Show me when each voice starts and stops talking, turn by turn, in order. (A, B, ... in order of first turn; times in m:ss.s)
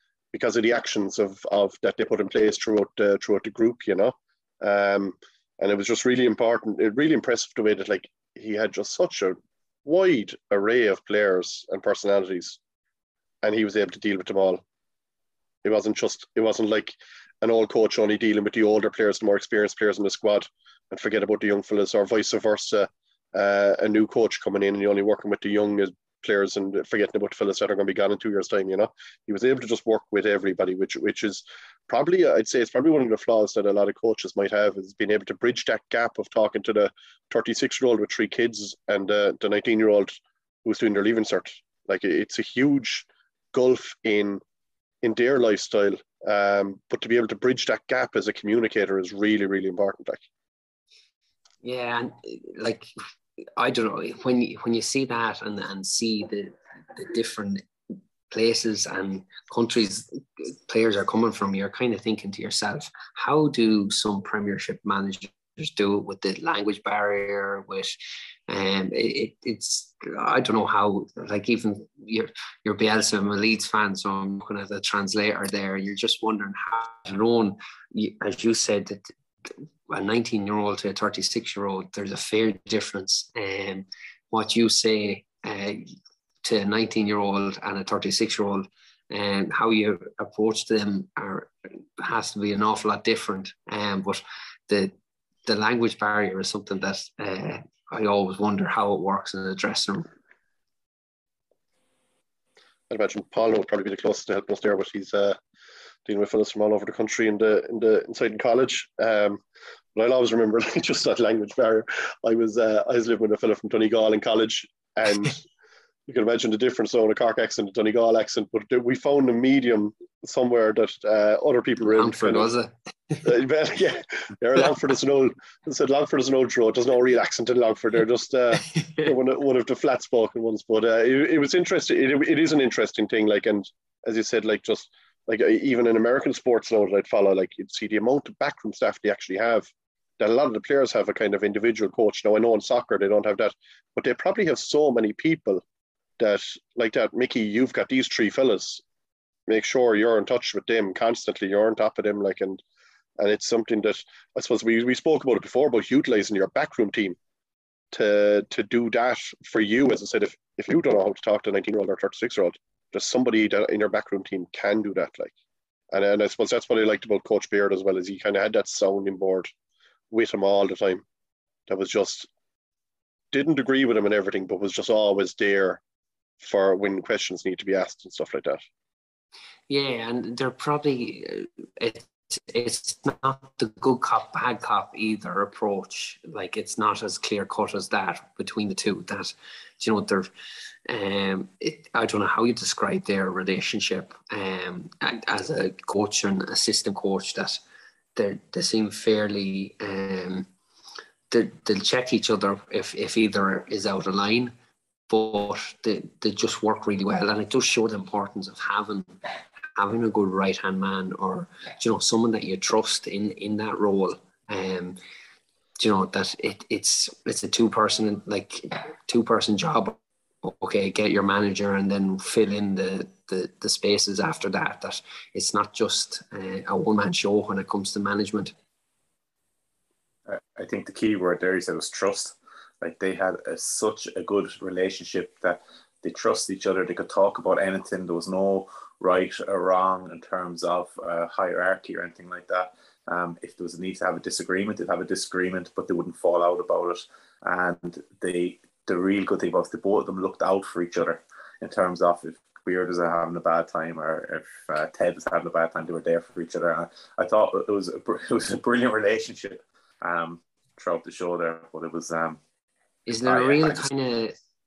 0:00.3-0:12.6 A
0:13.4-0:14.6 A
0:15.6-0:44.4 A
0:45.0-0:50.2 A
0:51.6-0:52.9 B
0:53.6-0:57.7 B
0:58.3-1:08.0 B
1:08.5-1:34.9 B
1:35.5-1:40.1 B
1:42.9-1:45.4 A
1:46.1-1:49.4 A
1:50.0-1:55.4 A
1:56.1-2:02.5 A
2:01.9-2:03.2 B
2:03.2-2:25.6 A
2:08.8-2:09.1 B
2:26.2-2:28.8 A
2:29.5-2:32.6 A
2:33.2-2:37.2 A
2:37.9-2:45.3 A
2:45.9-2:49.5 A
2:50.1-2:51.0 A
2:51.7-2:52.3 A
2:53.3-2:55.8 A
2:56.4-2:58.6 A
2:59.7-3:10.3 B
3:10.9-3:17.6 B
3:18.2-3:20.5 B
3:21.3-3:24.5 B
3:25.1-3:29.2 B
3:29.8-3:35.0 B
3:35.8-3:48.5 B
3:50.3-4:22.4 C
4:23.1-4:24.4 B
4:23.2-4:23.9 C